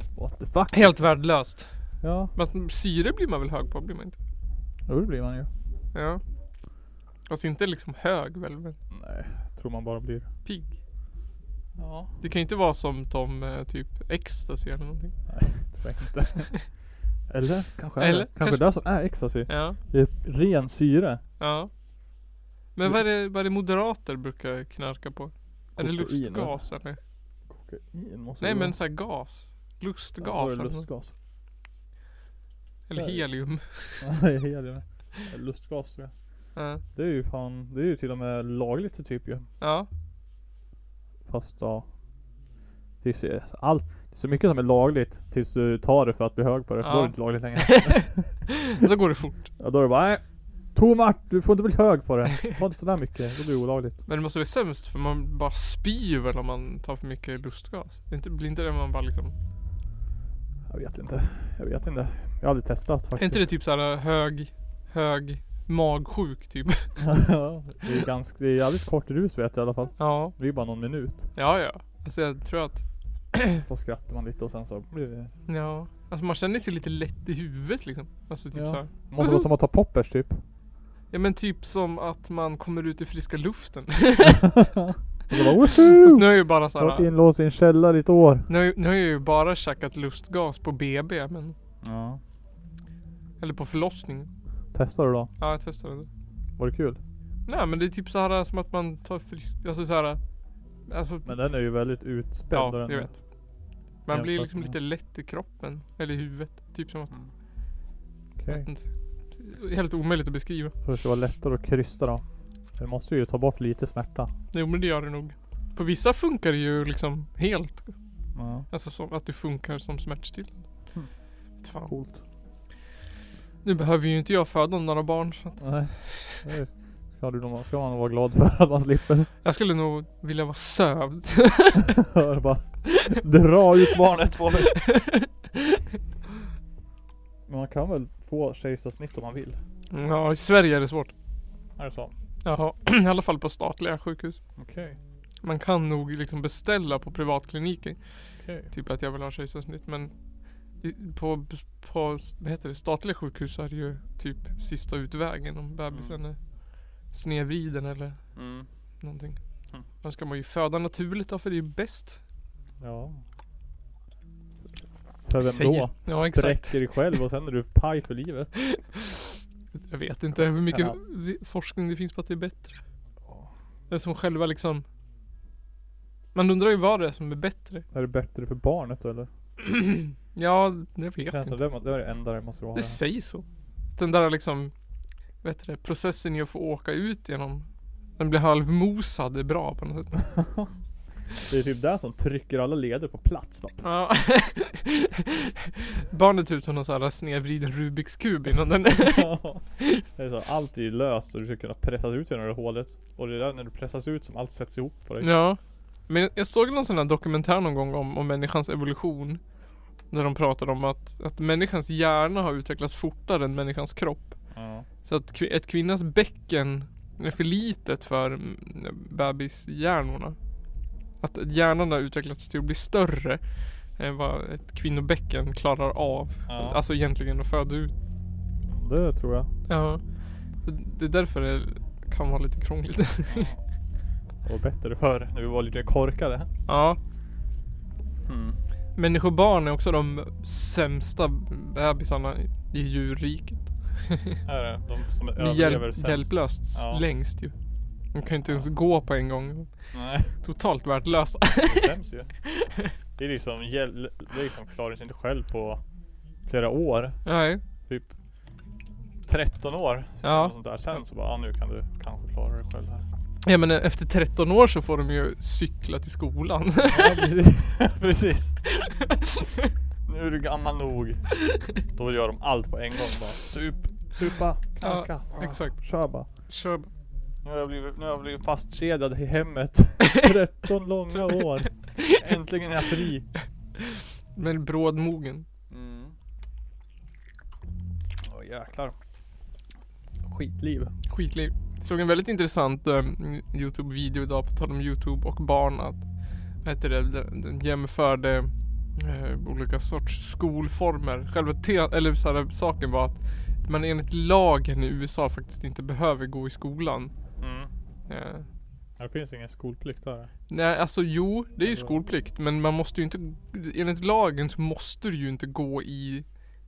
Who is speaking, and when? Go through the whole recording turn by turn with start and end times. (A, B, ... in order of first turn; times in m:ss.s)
0:00.2-0:01.0 A
0:00.7-0:01.7 B
0:02.0-0:02.3 A
0:02.3-0:04.2 B
0:04.9-0:05.5 A
0:05.9-0:06.2 B
0:07.3-0:08.8 B
0:08.9-0:10.3 A
0:10.4-0:10.8 B
0:11.8-0:12.1 A
0:12.2-0:15.1 B
0:15.3-0:16.7 A
0:17.3-0:21.2 A
0:18.0-0:18.7 B
0:19.5-0:19.8 B
0:21.4-0:21.7 B
0:22.7-0:27.0 B
0:25.8-0:26.6 A
0:27.5-0:28.7 A
0:28.4-0:30.9 B
0:30.2-0:31.1 A
0:32.9-0:34.1 B
0:32.9-0:33.2 A
0:34.0-0:36.1 A
0:36.5-0:36.8 B
0:36.9-0:39.4 A
0:39.6-0:39.9 B
0:41.3-0:41.8 A
0:43.0-0:48.3 A
0:46.8-0:49.5 B
0:49.6-0:50.2 A
0:50.7-0:54.0 A
0:54.0-0:59.3 B
1:00.7-1:03.5 A
1:03.2-1:07.0 B
1:07.0-1:11.3 A
1:10.0-1:10.3 B
1:11.3-1:13.6 B
1:13.6-1:15.3 A
1:15.5-1:19.5 B
1:18.5-1:20.4 A
1:21.1-1:24.5 B
1:24.2-1:28.5 A
1:25.7-1:27.1 B
1:28.5-1:31.5 B
1:31.8-1:32.2 A
1:33.4-1:34.3 B
1:34.7-1:35.3 A
1:35.4-1:36.1 B
1:36.6-1:37.0 A
1:37.4-1:40.2 B
1:40.9-1:41.3 B
1:41.2-1:43.2 A
1:42.5-1:43.2 B
1:44.1-1:47.1 B
1:44.1-1:44.8 A
1:48.4-1:48.7 A
1:48.5-1:50.7 B
1:50.8-1:52.2 A
1:52.8-1:54.3 A
1:54.5-1:58.0 B
1:58.3-1:58.6 A
1:58.7-2:00.6 B
2:01.6-2:01.9 B
2:01.8-2:02.2 A
2:03.6-2:06.4 B
2:05.6-2:09.3 A
2:09.4-2:11.9 B
2:11.8-2:14.8 A
2:14.8-2:15.8 B
2:17.5-2:19.6 A
2:19.9-2:21.1 B
2:21.8-2:22.1 A
2:22.4-2:24.4 B
2:24.6-2:25.0 A
2:25.4-2:28.0 B
2:28.4-2:28.7 A
2:28.7-2:30.1 B
2:30.8-2:36.4 B
2:35.9-2:36.2 A
2:37.0-2:38.3 B
2:38.3-2:38.7 A
2:39.0-2:39.4 B
2:40.0-2:42.2 B
2:42.8-2:43.2 A
2:45.3-2:48.6 A
2:45.4-2:46.8 B
2:48.7-2:49.0 B
2:49.8-2:52.8 B
2:50.4-2:51.0 A
2:53.9-2:54.8 B
2:56.3-2:57.8 B
2:57.9-2:59.3 A
2:59.6-3:01.6 B
3:01.2-3:03.0 A
3:02.7-3:03.4 B
3:04.0-3:04.7 B
3:05.4-3:10.2 B
3:10.2-3:10.7 A
3:11.4-3:13.9 A
3:13.8-3:20.0 B
3:19.0-3:25.3 A
3:25.2-3:29.4 B
3:30.1-3:34.4 B
3:34.5-3:34.8 A
3:35.0-3:40.4 B
3:41.2-3:43.4 B
3:44.0-3:47.9 B
3:46.5-3:46.8 A
3:48.7-3:49.5 A
3:49.7-3:50.0 B
3:50.6-3:53.5 B
3:53.3-3:53.6 A
3:54.4-3:56.5 A
3:56.7-3:57.0 B
3:58.2-3:58.6 A
3:59.0-4:04.4 B
4:04.4-4:07.0 A
4:05.4-4:07.5 B
4:08.1-4:11.9 B
4:08.4-4:08.7 A
4:09.9-4:10.3 A
4:11.6-4:12.4 A
4:12.6-4:12.9 B
4:13.2-4:15.8 A
4:16.4-4:17.2 A
4:17.2-4:17.6 B
4:19.3-4:23.0 A
4:20.2-4:20.5 B
4:23.4-4:27.3 B
4:26.9-4:28.6 A
4:28.7-4:29.0 B
4:30.0-4:36.3 A
4:34.8-4:35.8 B
4:36.5-4:36.9 B
4:37.4-4:43.3 A
4:44.3-4:45.4 B
4:45.7-4:46.1 A
4:48.2-4:48.9 A
4:50.2-4:50.9 A
4:51.1-4:56.0 B
4:56.6-5:07.1 B
5:07.4-5:07.7 A
5:08.1-5:08.4 B
5:09.0-5:10.3 A
5:10.5-5:16.2 B
5:11.6-5:11.9 A